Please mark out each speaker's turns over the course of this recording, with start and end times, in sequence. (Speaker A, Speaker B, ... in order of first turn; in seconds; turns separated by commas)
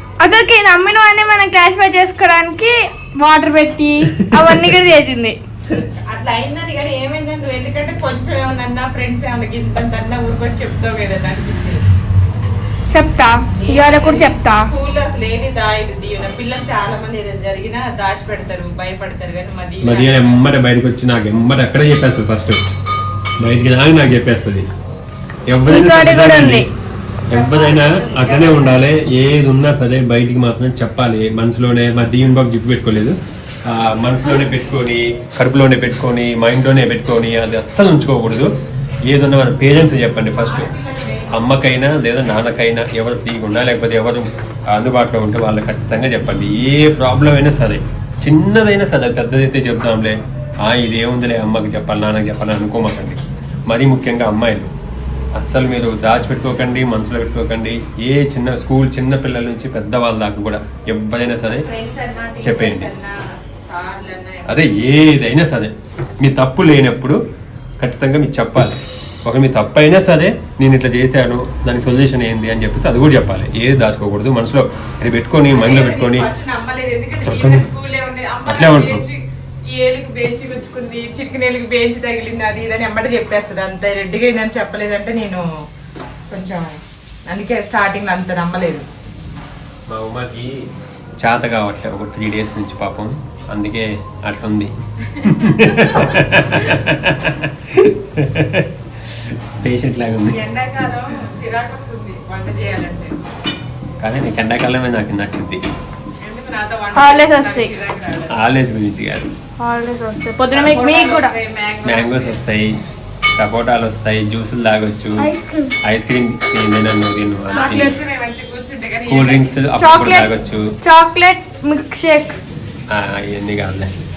Speaker A: 0.2-5.4, Speaker B: 6.1-11.8, Speaker A: 12.9-14.6, Speaker B: 13.6-20.4, Speaker C: 19.8-22.6, Speaker C: 23.4-24.7, Speaker C: 25.5-26.6, Speaker A: 25.7-26.7, Speaker B: 27.3-28.9, Speaker C: 27.3-33.1, Speaker C: 33.7-38.5, Speaker C: 39.0-40.7, Speaker B: 40.4-41.4, Speaker C: 41.3-54.7, Speaker C: 55.4-61.6, Speaker B: 61.4-64.7, Speaker C: 62.4-62.9, Speaker C: 64.5-67.2, Speaker C: 67.8-76.3, Speaker B: 75.5-79.2, Speaker C: 77.2-77.7, Speaker C: 78.5-79.0, Speaker B: 79.7-85.4, Speaker B: 86.3-86.8, Speaker B: 87.3-88.8, Speaker C: 89.9-90.5, Speaker C: 91.2-94.7, Speaker C: 95.2-100.4, Speaker B: 95.2-96.1, Speaker B: 100.3-103.2, Speaker C: 104.0-105.6, Speaker B: 106.2-108.3, Speaker A: 106.9-107.7, Speaker C: 108.3-109.3, Speaker A: 109.6-111.3, Speaker B: 110.5-112.4, Speaker C: 111.8-112.8, Speaker C: 113.4-115.3, Speaker A: 115.2-115.8, Speaker C: 115.8-118.0, Speaker B: 117.5-119.5, Speaker A: 117.5-117.8, Speaker C: 119.1-120.6, Speaker A: 119.8-120.3, Speaker A: 120.8-122.3, Speaker C: 122.9-123.9